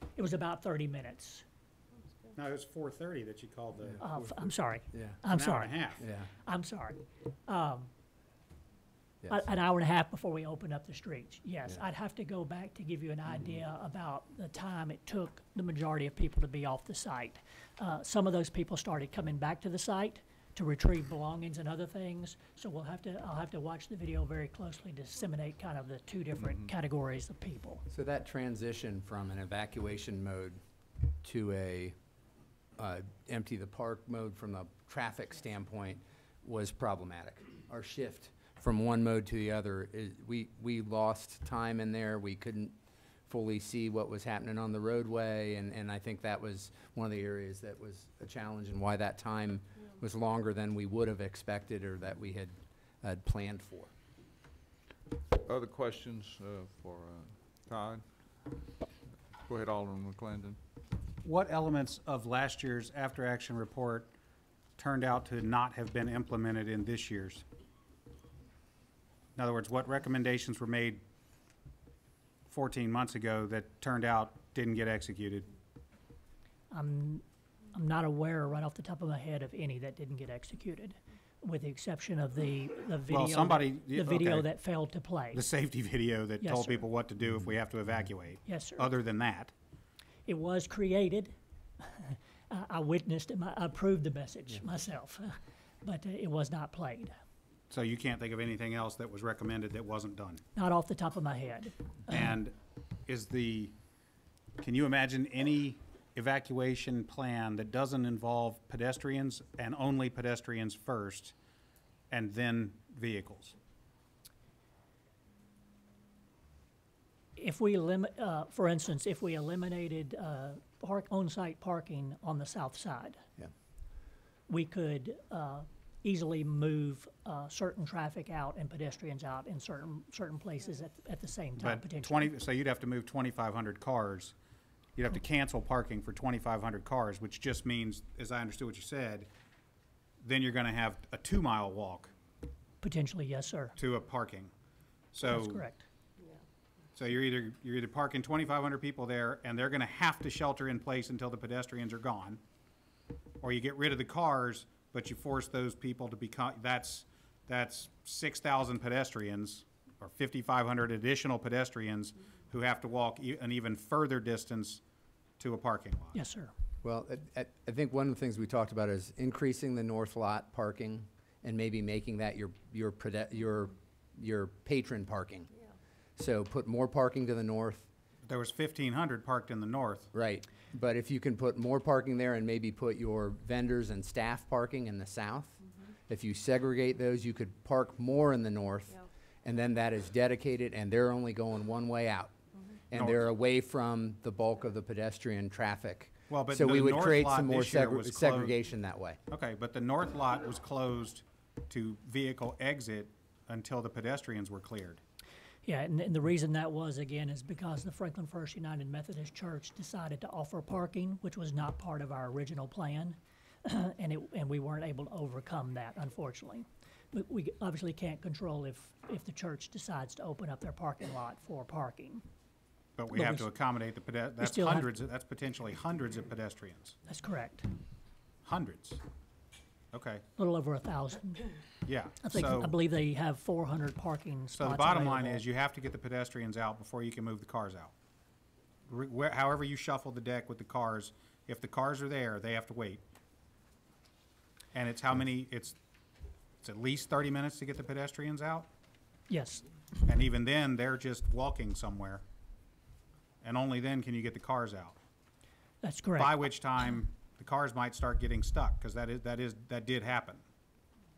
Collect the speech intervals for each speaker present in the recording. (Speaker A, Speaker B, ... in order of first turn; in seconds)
Speaker A: 0.2-1.4, 4.0-7.9, 9.3-27.8, 76.7-85.4, 86.4-86.9, 88.5-88.9, 90.3-97.2, 100.6-102.2, 117.4-123.2, 124.5-132.3, 142.8-143.8, 145.2-145.8, 166.1-166.5, 205.6-222.2, 223.1-223.5, 224.4-224.9, 227.1-227.7, 230.4-231.6, 232.2-235.4, 249.3-249.7, 255.8-256.4
Speaker B: 2.4-4.0, 5.3-6.0, 61.2-64.1, 64.8-67.5, 69.4-71.0, 72.5-75.5, 83.1-84.5, 85.3-89.5, 97.7-100.4, 102.1-102.6, 103.1-103.8, 104.6-111.3, 112.1-113.6, 131.6-134.3, 135.0-139.3, 140.2-142.1, 143.8-144.5, 145.1-145.7, 147.0-152.4, 153.4-164.8, 165.4-166.2, 178.3-180.1, 192.9-193.3, 196.3-198.6, 199.3-205.0, 223.0-227.0, 228.4-229.0, 229.9-230.2, 231.8-232.7, 234.5-237.9, 238.9-243.0, 244.7-245.8, 246.6-248.7, 250.1-252.2, 253.4-255.0, 256.2-260.4
Speaker C: 3.9-4.3, 4.9-5.2, 6.0-6.3, 27.9-30.6, 31.2-31.9, 32.8-42.8, 43.3-53.9, 166.8-175.5, 176.2-177.9, 180.1-192.3, 192.9-199.2
Speaker D: 55.5-58.0, 59.5-60.6